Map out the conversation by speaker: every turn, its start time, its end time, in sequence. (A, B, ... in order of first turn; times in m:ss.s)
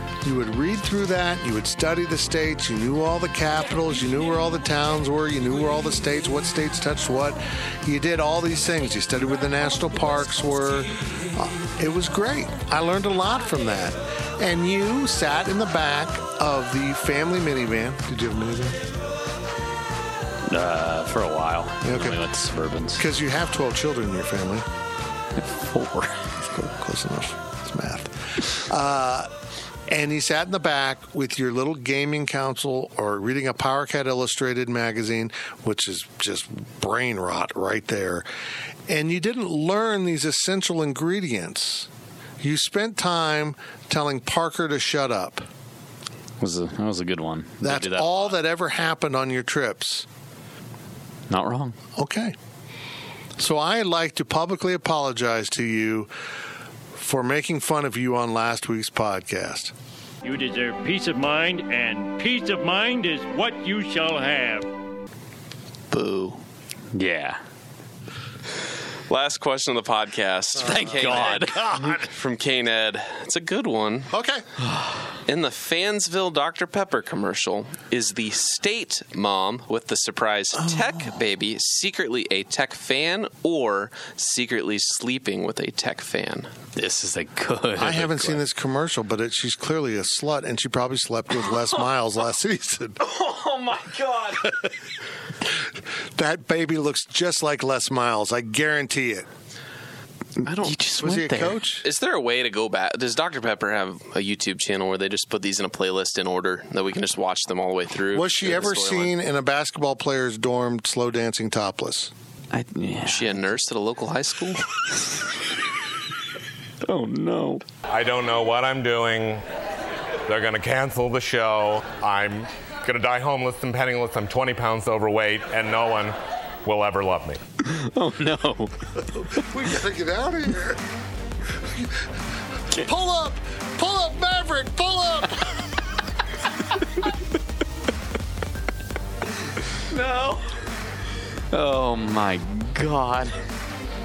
0:00.2-0:18.8 A
0:20.5-0:23.0 B
0:21.8-0:22.2 A
0:23.0-0:24.7 A
0:25.4-0:26.2 B
0:26.5-0:29.3 A
0:29.9-0:38.3 A
0:38.9-0:41.9 A
0:42.4-0:45.5 A
0:46.4-0:48.4 B
0:47.6-0:50.1 A
0:51.3-0:51.8 B
0:52.0-0:52.4 A
0:53.4-0:56.1 A
0:57.0-0:59.7 A
1:00.2-1:04.7 C
1:05.9-1:06.4 D
1:07.0-1:07.4 B
1:09.1-1:14.1 D
1:10.6-1:12.1 A
1:10.6-1:11.8 B
1:14.1-1:14.4 A
1:15.3-1:26.5 D
1:26.8-1:28.4 B
1:27.8-1:33.0 A
1:33.2-1:34.4 B
1:36.2-1:39.3 A
1:40.4-1:49.2 D
1:40.6-1:41.3 B
1:41.0-1:41.8 A
1:48.1-1:52.1 A
1:52.5-1:53.3 B
1:53.1-1:54.6 D
1:56.8-1:57.6 B
1:57.9-1:59.4 E
2:00.3-2:07.4 E
2:07.6-2:08.7 B
2:09.3-2:10.8 A
2:12.8-2:15.5 A
2:19.9-2:20.4 B
2:21.5-2:23.4 B